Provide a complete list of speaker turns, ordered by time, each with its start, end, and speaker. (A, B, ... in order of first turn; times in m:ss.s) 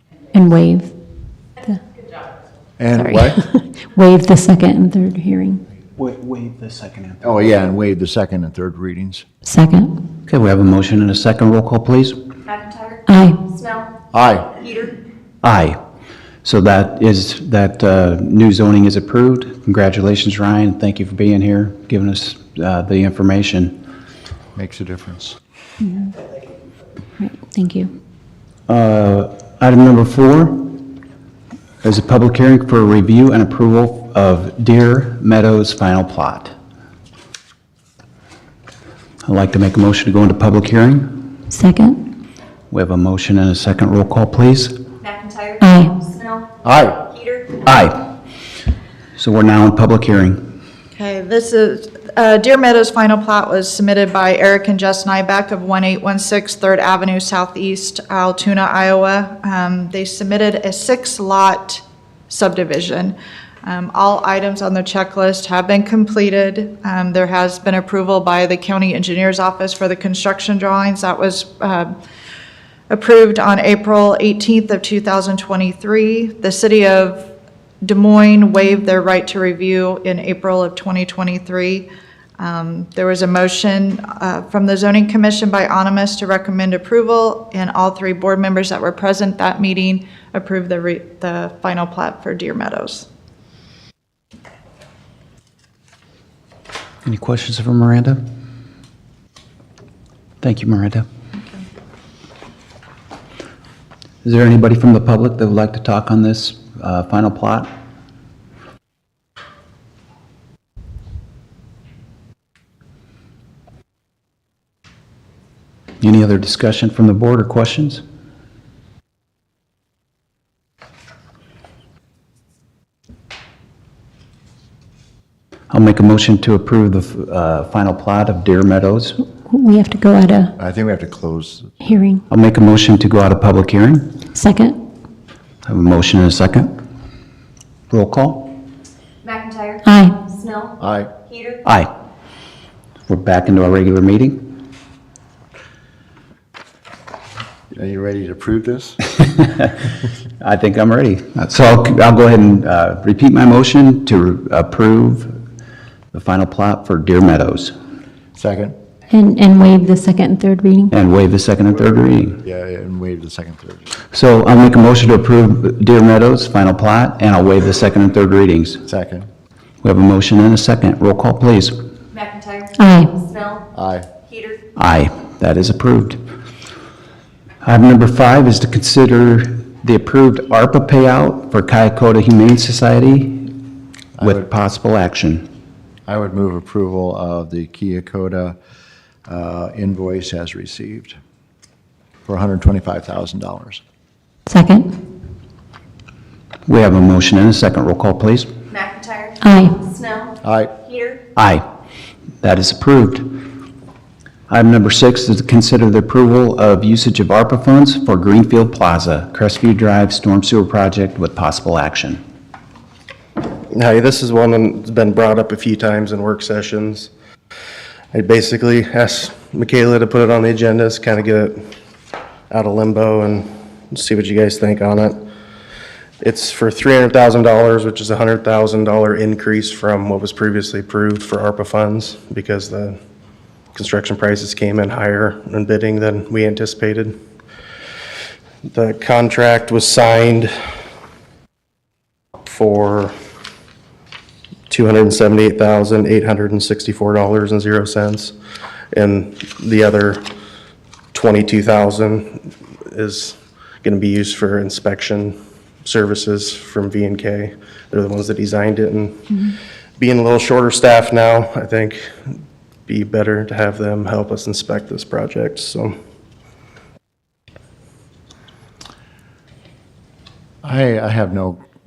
0:00.3-0:00.9 A
0:02.8-0:03.5 B
0:03.8-0:05.6 A
0:06.0-0:07.2 C
0:07.2-0:09.2 B
0:09.4-0:10.0 A
0:10.2-0:12.2 C
0:12.5-0:13.9 D
0:13.1-0:13.4 A
0:14.1-0:14.6 B
0:15.4-0:15.8 C
0:16.4-0:23.8 C
0:24.5-0:25.4 B
0:25.8-0:26.1 A
0:27.2-0:27.9 A
0:28.7-0:30.9 C
0:31.8-0:36.5 C
0:39.2-0:41.4 C
0:41.5-0:42.1 A
0:42.7-0:44.8 C
0:45.0-0:46.5 D
0:45.6-0:46.0 A
0:46.6-0:47.0 B
0:47.3-0:47.6 D
0:47.6-0:48.1 C
0:49.2-0:50.5 C
0:50.9-1:11.9 E
1:12.9-1:17.3 E
1:17.8-1:21.9 E
1:22.4-1:33.0 E
1:37.0-1:38.2 C
1:40.4-1:41.0 C
1:44.2-1:47.7 C
1:56.0-1:58.0 C
2:05.7-2:09.2 C
2:09.5-2:10.5 A
2:10.6-2:11.7 B
2:11.8-2:12.2 A
2:12.3-2:14.2 C
2:14.3-2:14.8 A
2:15.6-2:16.7 C
2:17.9-2:18.5 C
2:19.2-2:20.8 D
2:19.8-2:20.2 A
2:20.8-2:21.1 B
2:21.3-2:21.6 D
2:21.6-2:21.9 C
2:23.1-2:24.6 C
2:27.7-2:29.0 B
2:29.2-2:29.8 C
2:30.4-2:35.4 C
2:36.1-2:37.7 C
2:38.4-2:38.8 B
2:39.1-2:40.9 A
2:40.9-2:42.4 C
2:42.4-2:43.8 B
2:44.1-2:48.8 C
2:48.9-2:49.3 B
2:49.8-2:51.8 C
2:52.1-2:53.6 D
2:52.8-2:53.2 A
2:53.7-2:54.1 B
2:54.3-2:54.6 D
2:54.8-2:56.2 C
2:57.6-3:03.6 C
3:04.2-3:04.4 B
3:04.2-3:05.4 C
3:06.1-3:08.6 B
3:09.3-3:11.2 B
3:12.2-3:13.8 B
3:14.5-3:14.9 A
3:16.6-3:18.5 C
3:18.7-3:20.3 D
3:19.4-3:19.8 A
3:20.4-3:20.8 B
3:20.8-3:21.2 D
3:21.4-3:21.6 C
3:22.4-3:23.4 C
3:24.5-3:32.2 C
3:33.7-3:37.1 F
3:38.1-3:41.7 F
3:42.5-3:45.2 F
3:46.2-3:53.0 F
3:53.7-3:57.2 F
3:58.7-4:00.5 F
4:02.4-4:03.1 F
4:04.7-4:08.3 F
4:08.9-4:10.2 F
4:11.1-4:22.3 F
4:22.9-4:25.9 F
4:30.6-4:31.6 B